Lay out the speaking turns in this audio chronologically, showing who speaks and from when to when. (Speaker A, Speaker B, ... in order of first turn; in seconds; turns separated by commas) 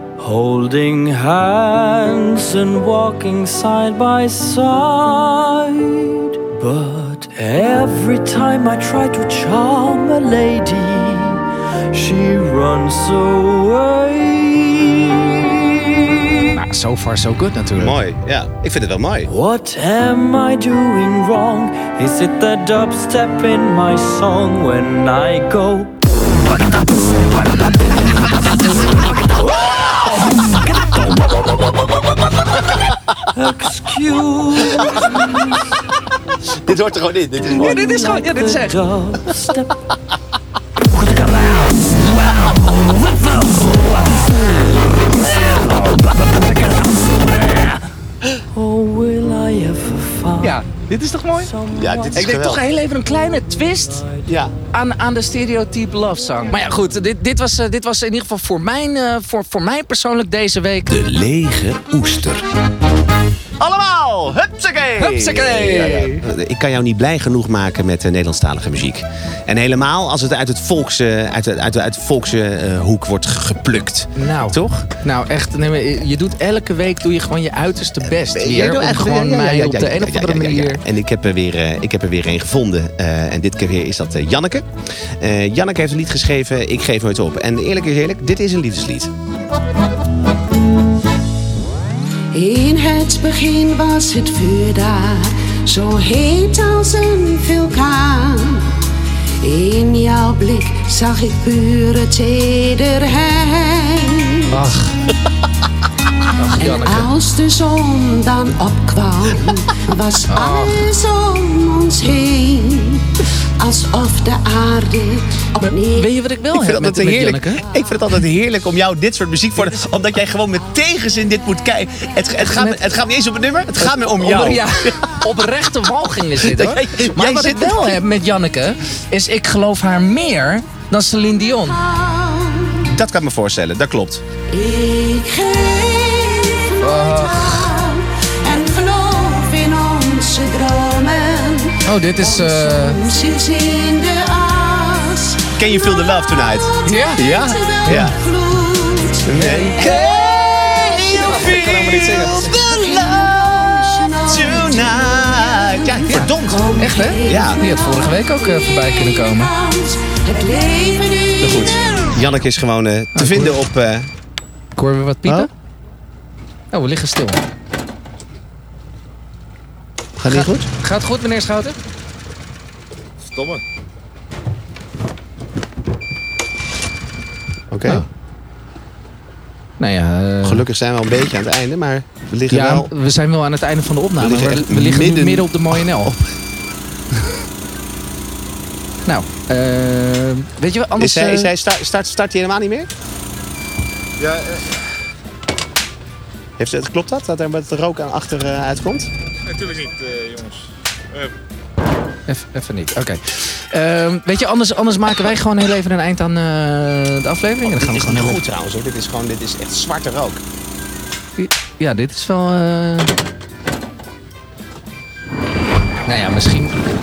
Speaker A: 0.2-16.5, Speaker B: 16.5-18.0, Speaker C: 17.8-19.3, Speaker A: 19.3-26.0, Speaker A: 33.3-35.6, Speaker C: 36.7-37.8, Speaker B: 37.5-39.0, Speaker A: 37.5-39.8, Speaker B: 41.2-43.9, Speaker B: 45.6-47.7, Speaker A: 48.5-50.7, Speaker B: 50.4-51.5, Speaker A: 51.4-52.4, Speaker C: 51.7-52.6, Speaker B: 52.1-54.1, Speaker A: 53.9-54.2, Speaker C: 54.3-54.5, Speaker B: 54.7-60.9, Speaker C: 60.9-62.4, Speaker C: 63.6-74.8, Speaker B: 65.0-66.3, Speaker B: 74.2-80.8, Speaker C: 78.1-89.1, Speaker D: 92.3-98.8, Speaker D: 99.4-104.6, Speaker B: 104.5-105.0, Speaker B: 106.4-107.1, Speaker D: 106.6-116.1, Speaker B: 110.3-110.9, Speaker B: 115.6-117.6, Speaker C: 116.5-125.2, Speaker B: 122.4-122.9, Speaker B: 123.8-131.8, Speaker C: 126.4-128.0, Speaker D: 131.8-132.8, Speaker C: 132.8-134.2, Speaker D: 134.5-145.5, Speaker B: 136.8-137.8, Speaker B: 141.8-143.0, Speaker C: 145.6-148.2, Speaker D: 146.0-162.1, Speaker B: 146.8-147.3, Speaker B: 147.9-148.1, Speaker C: 149.2-150.0, Speaker B: 149.8-150.2, Speaker C: 150.8-157.6, Speaker B: 151.1-152.6, Speaker B: 156.8-159.5, Speaker B: 161.4-161.8, Speaker C: 161.5-164.1, Speaker B: 163.2-163.6, Speaker B: 164.8-165.5, Speaker B: 166.7-167.4, Speaker C: 170.2-170.7, Speaker B: 170.3-171.8, Speaker E: 173.2-173.6, Speaker C: 177.7-178.1, Speaker B: 179.8-180.7, Speaker C: 180.4-182.9, Speaker B: 182.5-186.2, Speaker C: 184.2-186.3, Speaker B: 189.1-191.5, Speaker C: 191.0-192.9, Speaker E: 194.2-194.8, Speaker C: 196.6-199.1, Speaker E: 199.5-201.4, Speaker B: 202.3-208.4, Speaker C: 207.7-210.4, Speaker B: 211.4-213.1, Speaker B: 216.1-216.8